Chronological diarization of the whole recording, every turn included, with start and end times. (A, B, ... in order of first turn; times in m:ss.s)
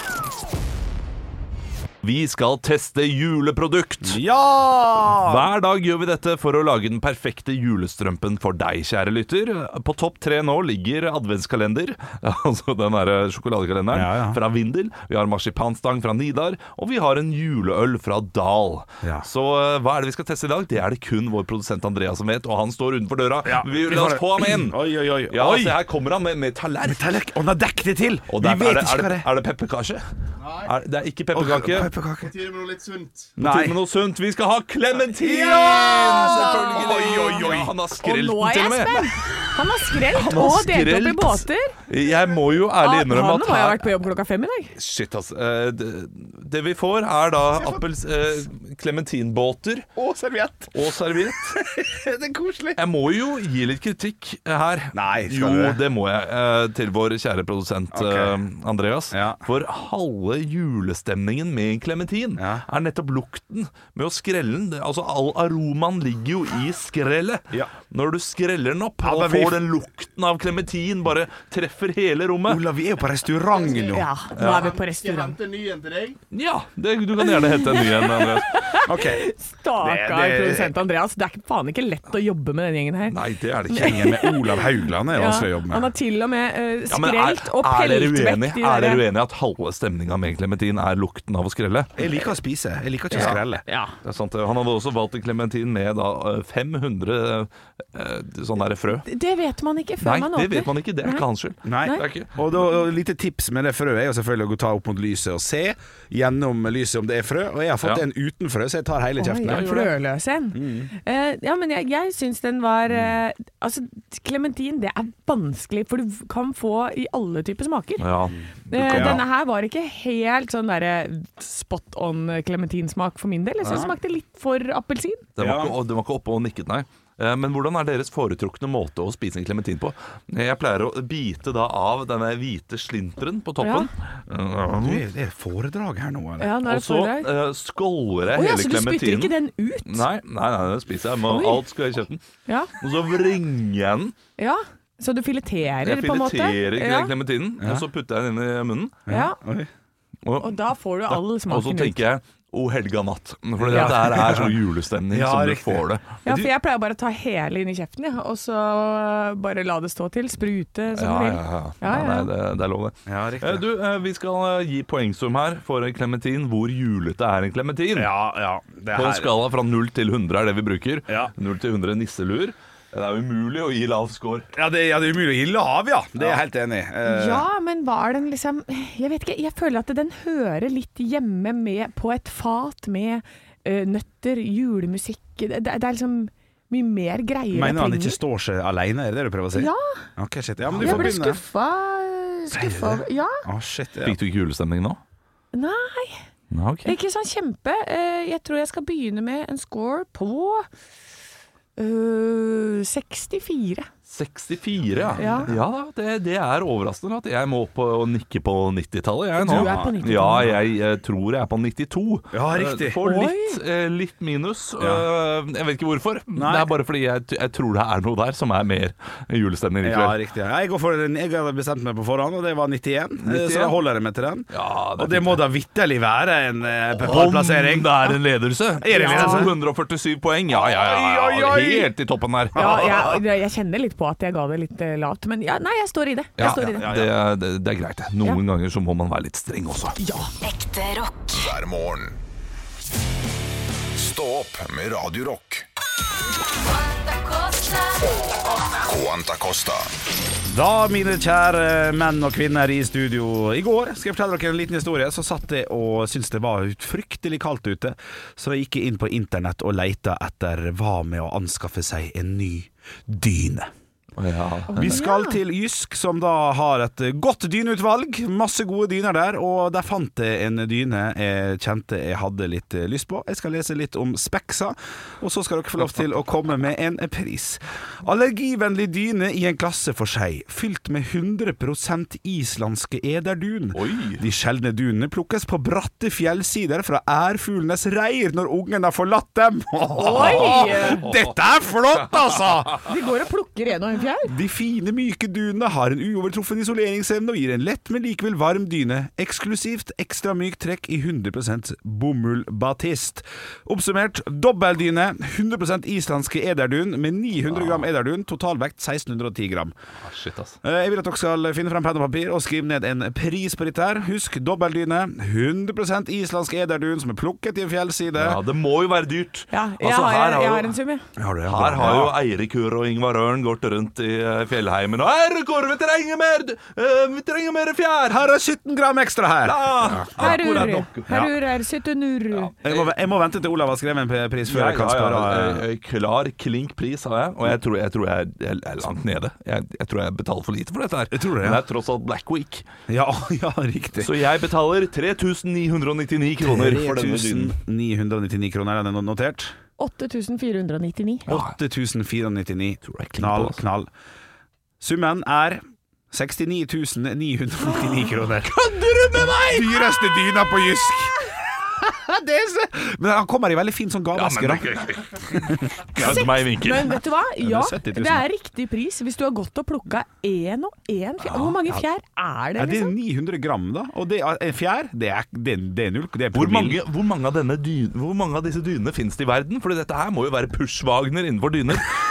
0:02.0-0:04.2 A
0:04.0-0:05.5 B
0:05.2-0:27.2 A
0:13.9-0:14.4 B
0:19.0-0:19.3 B
0:23.4-0:25.8 B
0:26.8-0:29.3 B
0:28.3-0:30.0 A
0:30.4-0:30.7 C
0:30.6-0:31.9 A
0:31.3-0:32.3 B
0:32.2-0:33.4 C
0:33.4-0:33.8 B
0:33.4-0:39.4 A
0:35.2-0:37.7 B
0:35.5-0:41.8 D
0:40.1-0:43.9 A
0:42.8-0:44.7 D
0:44.8-0:49.9 A
0:47.5-0:47.8 B
0:50.0-0:50.8 B
0:50.7-0:51.6 A
0:51.3-0:52.8 B
0:52.8-1:12.6 A
0:54.9-0:55.8 B
0:57.9-0:58.3 B
0:59.1-0:59.4 B
1:02.4-1:02.6 B
1:09.0-1:09.7 B
1:12.4-1:14.1 B
1:13.5-1:16.2 C
1:13.9-1:15.4 D
1:14.4-1:14.8 A
1:16.3-1:18.8 A
1:17.2-1:23.2 D
1:18.8-1:19.2 B
1:19.8-1:20.7 B
1:23.1-1:24.2 A
1:23.7-1:29.0 D
1:23.7-1:25.9 B
1:26.9-1:31.9 A
1:32.0-1:33.6 B
1:33.1-1:33.9 D
1:33.1-1:33.4 A
1:34.0-1:39.1 A
1:39.0-1:41.2 D
1:40.0-1:42.4 A
1:41.6-1:49.8 B
1:49.2-1:58.1 D
1:49.4-1:49.9 A
1:50.5-1:50.9 B
1:58.0-1:59.2 A
1:58.7-2:05.3 D
1:58.9-1:59.2 B
2:05.4-2:15.0 A
2:05.4-2:05.7 B
2:13.6-2:13.9 D
2:14.8-2:16.5 B
2:16.4-2:17.3 D
2:16.6-2:22.2 A
2:18.3-2:20.0 D
2:21.3-2:21.6 D
2:22.5-2:22.7 D
2:22.8-2:24.1 A
2:24.4-2:27.1 D
2:25.8-2:29.0 A
2:27.6-2:27.8 B
2:29.1-2:29.7 B
2:29.1-2:29.4 D
2:30.2-2:30.6 A
2:30.4-2:32.0 D
2:31.1-2:36.5 A
2:33.6-2:34.6 B
2:35.1-2:35.8 B
2:36.2-2:42.3 D
2:40.9-2:48.1 A
2:43.1-2:43.6 B
2:47.9-2:49.3 B
2:48.9-2:54.5 A
2:54.5-2:57.4 B
2:57.0-3:08.2 D
3:07.5-3:11.4 B
3:09.5-3:10.0 D
3:10.7-3:13.4 D
3:10.7-3:11.1 A
3:12.5-3:14.2 B
3:14.0-3:15.0 A
3:15.5-3:16.2 D
3:16.5-3:17.0 A
3:16.8-3:20.7 D
3:21.8-3:23.9 D
3:24.1-3:40.2 A
3:24.9-3:25.5 B
3:25.2-3:25.5 D
3:29.4-3:30.5 D
3:29.5-3:30.2 B
3:32.3-3:33.0 B
3:33.0-3:33.6 D
3:34.8-3:35.0 B
3:36.3-3:36.7 B
3:39.8-3:48.2 B
3:43.2-3:43.8 A
3:44.5-3:45.4 A
3:47.0-3:53.1 A
3:48.8-3:49.5 B
3:48.9-3:49.5 D
3:50.5-3:51.9 B
3:52.5-3:53.2 B
3:52.5-3:56.9 D
3:56.4-3:57.1 B
3:56.4-4:00.0 A
4:00.0-4:00.3 D
4:00.4-4:01.3 E
4:01.3-4:02.2 F
4:03.9-4:05.6 F
4:06.7-4:08.0 E
4:08.8-4:09.9 F
4:10.5-4:23.7 B
4:24.2-4:25.0 A
4:24.7-4:52.8 B
4:24.8-4:25.3 D
4:43.7-4:44.2 A
4:50.0-4:51.0 D
4:50.1-4:51.3 A
4:52.8-4:54.3 D
4:54.2-5:09.7 B
5:07.6-5:07.8 A
5:10.0-5:10.6 A
5:10.6-5:18.4 B
5:18.2-5:20.7 A
5:19.5-5:21.0 D
5:21.2-5:22.2 B
5:21.5-5:28.2 A
5:28.1-5:30.2 B
5:29.4-5:31.3 A
5:30.2-5:32.5 D
5:32.3-5:32.9 A
5:32.6-5:35.6 B
5:34.5-5:42.7 A
5:41.1-5:41.6 B
5:42.9-5:44.2 B
5:44.0-5:47.5 A
5:46.4-5:49.5 B
5:49.8-5:51.3 D
5:51.3-5:53.9 B
5:51.3-5:51.5 A
5:52.8-5:53.6 A
5:54.8-5:58.5 B
5:58.4-5:59.9 A
5:59.4-6:06.3 B
6:04.1-6:07.0 A
6:06.0-6:12.9 D
6:07.4-6:08.2 B
6:11.2-6:11.8 B
6:12.6-6:16.8 B
6:16.3-6:21.9 A